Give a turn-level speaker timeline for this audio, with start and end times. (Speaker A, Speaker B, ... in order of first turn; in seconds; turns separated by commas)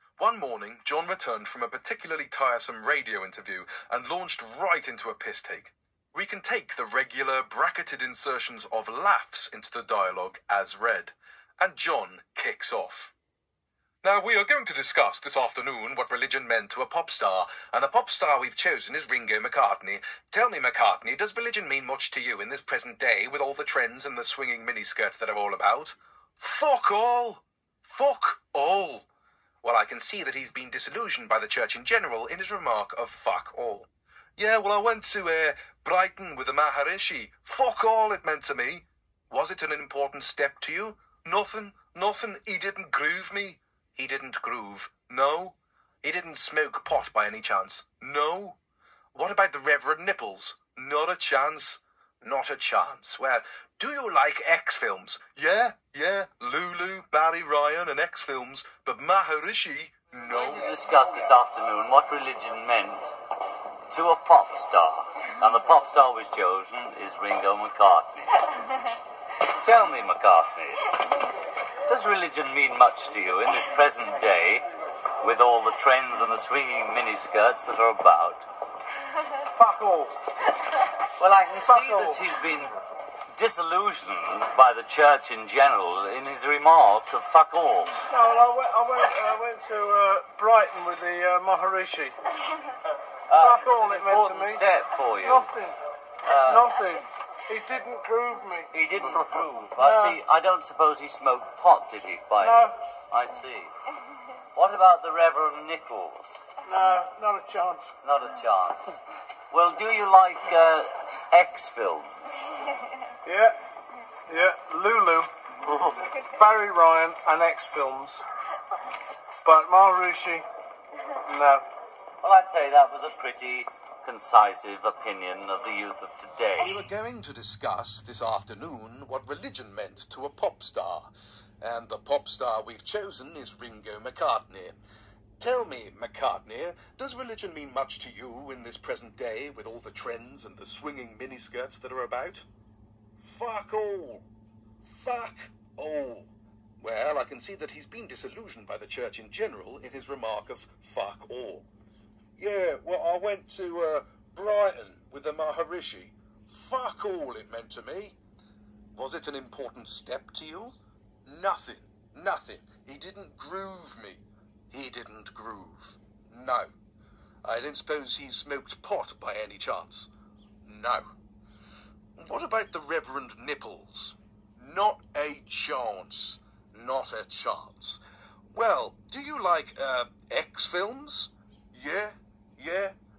Speaker A: 0.2-13.1, Speaker A: 14.0-29.1, Speaker A: 29.6-48.6, Speaker A: 49.1-60.7, Speaker B: 60.3-63.1, Speaker B: 63.9-68.5, Speaker B: 69.6-70.9, Speaker B: 71.9-74.7, Speaker B: 75.2-78.4, Speaker C: 79.5-80.2, Speaker B: 81.2-82.8, Speaker C: 81.6-82.2, Speaker B: 83.3-88.0, Speaker C: 88.1-92.2, Speaker B: 93.3-95.5, Speaker C: 93.4-94.6, Speaker C: 95.2-95.8, Speaker B: 96.2-96.7, Speaker C: 96.5-100.2, Speaker B: 98.7-103.7, Speaker C: 102.4-102.7, Speaker B: 104.5-106.4, Speaker C: 106.7-107.9, Speaker B: 108.0-109.0, Speaker B: 109.5-112.1, Speaker C: 113.2-113.6, Speaker C: 114.3-118.2, Speaker C: 119.4-120.5, Speaker C: 121.2-121.7, Speaker B: 122.2-126.8, Speaker A: 126.6-131.1, Speaker A: 131.6-134.8, Speaker A: 135.4-142.4, Speaker A: 143.2-144.3, Speaker A: 144.8-146.3, Speaker A: 146.8-151.7, Speaker A: 152.4-158.2, Speaker A: 158.9-160.8, Speaker A: 161.3-166.7, Speaker A: 167.4-170.1, Speaker A: 170.6-171.1, Speaker A: 172.2-182.9